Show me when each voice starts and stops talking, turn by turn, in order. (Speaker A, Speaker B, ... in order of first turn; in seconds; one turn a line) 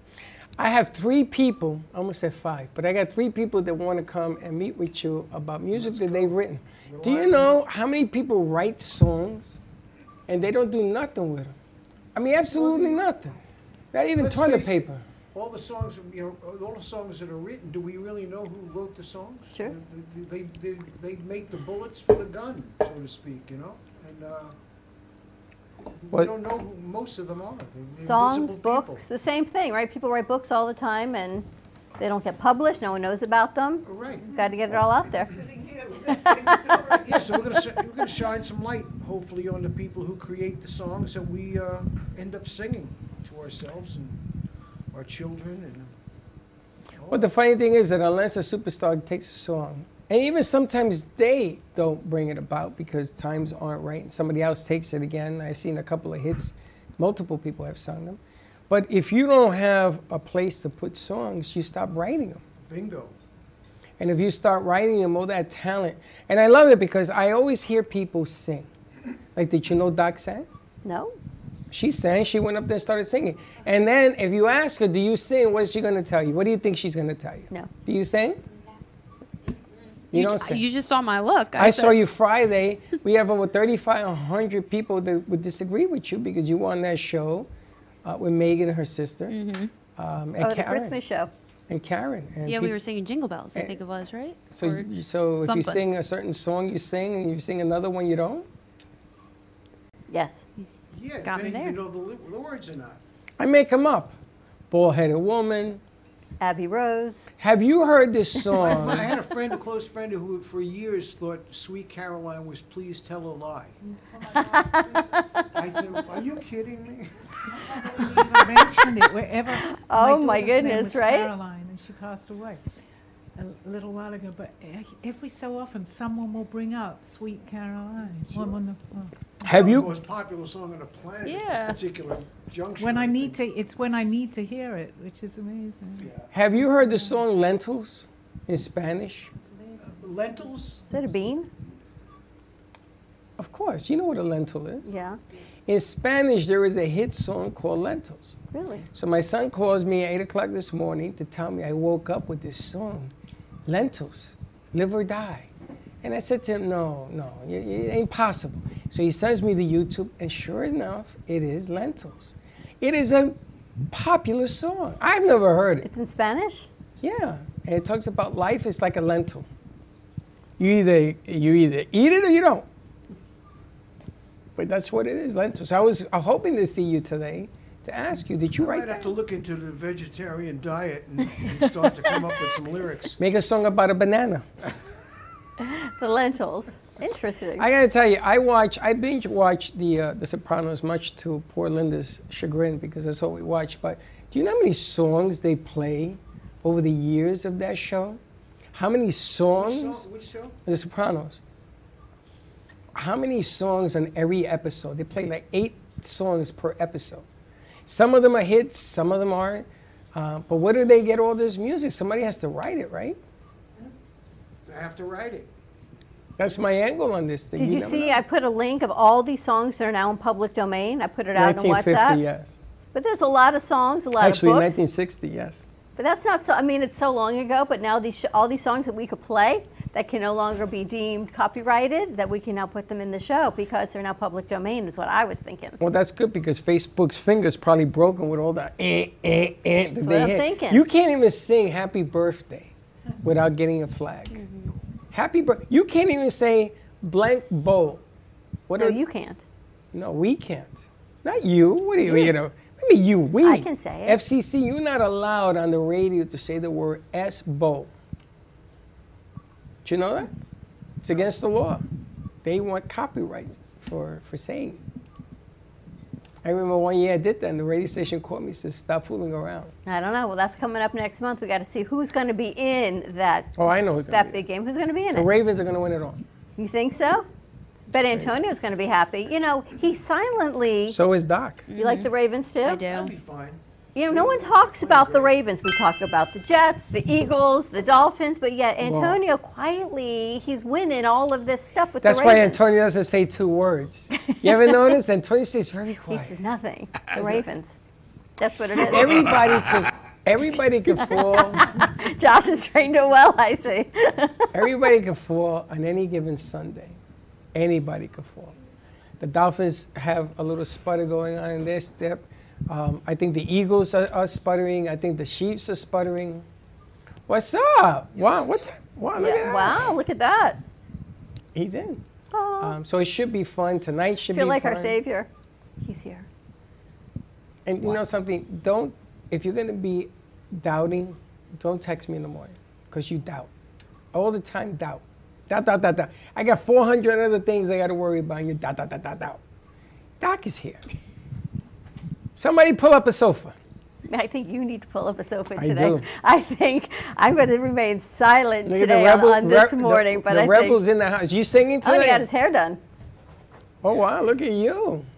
Speaker A: 0.6-9.6
Speaker B: 5.7-7.6
Speaker A: 10.3-11.5
Speaker A: 12.1-13.4
Speaker B: 12.5-13.1
Speaker A: 13.9-15.0
Speaker B: 14.2-24.5
Speaker B: 26.1-29.0
Speaker C: 28.0-31.5
Speaker C: 32.0-35.3
Speaker B: 33.8-34.3
Speaker D: 35.7-36.6
Speaker C: 36.1-37.0
Speaker B: 37.0-44.2
Speaker B: 44.9-45.9
Speaker B: 47.0-47.3
Speaker A: 47.1-62.4
Speaker B: 62.6-63.1
Speaker A: 64.0-68.7
Speaker A: 69.3-70.5
Speaker C: 70.8-71.2
Speaker A: 71.7-78.4
Speaker A: 80.1-80.7
Speaker E: 80.1-82.0
Speaker A: 81.5-87.5
Speaker A: 88.0-89.4
Speaker E: 89.3-89.7
Speaker A: 90.0-91.0
Speaker C: 90.4-91.3
Speaker A: 91.7-92.8
Speaker E: 92.5-94.9
Speaker A: 93.5-93.8
Speaker A: 94.5-98.5
Speaker E: 95.4-95.8
Speaker C: 100.1-100.4
Speaker B: 100.9-103.0
Speaker E: 101.2-101.8
Speaker A: 103.4-104.2
Speaker A: 104.7-105.8
Speaker C: 106.4-107.3
Speaker A: 107.4-109.1
Speaker B: 108.5-113.8
Speaker C: 114.4-115.0
Speaker B: 115.5-117.1
Speaker D: 117.6-122.6
Speaker C: 119.5-121.3
Speaker D: 123.3-129.1
Speaker B: 128.2-128.6
Speaker A: 129.4-129.9
Speaker B: 129.5-133.4
Speaker E: 131.2-131.8
Speaker D: 132.8-136.1
Speaker B: 136.0-136.3
Speaker A: 136.3-139.3
Speaker B: 139.9-140.8
Speaker C: 140.9-141.5
Speaker A: 143.4-144.8
Speaker C: 144.8-145.2
Speaker A: 145.7-148.4
Speaker C: 148.5-148.9
Speaker A: 148.9-153.1
Speaker A: 153.7-155.5
Speaker A: 156.0-163.4
Speaker A: 163.9-165.9
Speaker C: 165.8-166.7
Speaker A: 167.0-169.4
Speaker A: 170.6-172.7
Speaker A: 174.6-179.1
Speaker B: 178.5-183.2
Speaker A: 183.2-184.4
Speaker C: 185.6-187.7
Speaker A: 187.6-198.2
Speaker A: 198.7-200.1
Speaker B: 199.5-200.6
Speaker A: 200.7-201.4
Speaker A: 202.9-207.2
Speaker A: 207.8-213.2
Speaker B: 214.7-215.5
Speaker A: 216.4-218.2
Speaker C: 217.6-222.2
Speaker A: 221.3-222.5
Speaker C: 222.9-224.8
Speaker A: 224.2-225.6
Speaker C: 226.0-235.8
Speaker A: 235.8-244.4
Speaker C: 240.0-240.8
Speaker E: 244.3-244.7
Speaker A: 245.1-248.0
Speaker A: 248.7-249.0
Speaker C: 248.8-249.4
Speaker A: 249.9-257.9
Speaker C: 252.1-252.3
Speaker C: 253.4-254.2
Speaker A: 259.8-260.3
Speaker A: 261.0-261.8
Speaker A: 262.4-264.8
Speaker A: 266.4-269.7
Speaker C: 269.9-273.5
Speaker A: 273.5-274.4
Speaker C: 274.1-275.3
Speaker A: 275.1-276.2
Speaker C: 276.6-277.2
Speaker C: 277.9-281.0
Speaker A: 280.9-281.6
Speaker E: 281.7-282.1
Speaker C: 281.7-282.9
Speaker E: 282.6-283.1
Speaker B: 282.9-285.4
Speaker C: 283.9-292.7
Speaker A: 288.8-289.2
Speaker A: 292.0-296.4
Speaker C: 294.2-294.8
Speaker C: 296.1-297.8
Speaker A: 297.1-297.4
Speaker C: 298.4-299.4
Speaker A: 298.8-301.7
Speaker C: 300.9-304.7
Speaker A: 304.5-307.0
Speaker A: 307.5-308.5
Speaker A: 309.2-316.4
Speaker A: 317.3-319.9
Speaker C: 319.2-320.6
Speaker A: 321.5-322.0
Speaker C: 322.3-322.8
Speaker A: 322.6-325.0
Speaker C: 324.3-325.3
Speaker C: 325.8-326.3
Speaker A: 327.6-333.5
Speaker A: 334.1-339.4
Speaker A: 340.2-340.8
Speaker A: 342.4-343.6
Speaker C: 344.1-350.8
Speaker A: 345.6-346.1
Speaker A: 348.6-352.3
Speaker C: 351.8-352.8
Speaker A: 353.8-355.1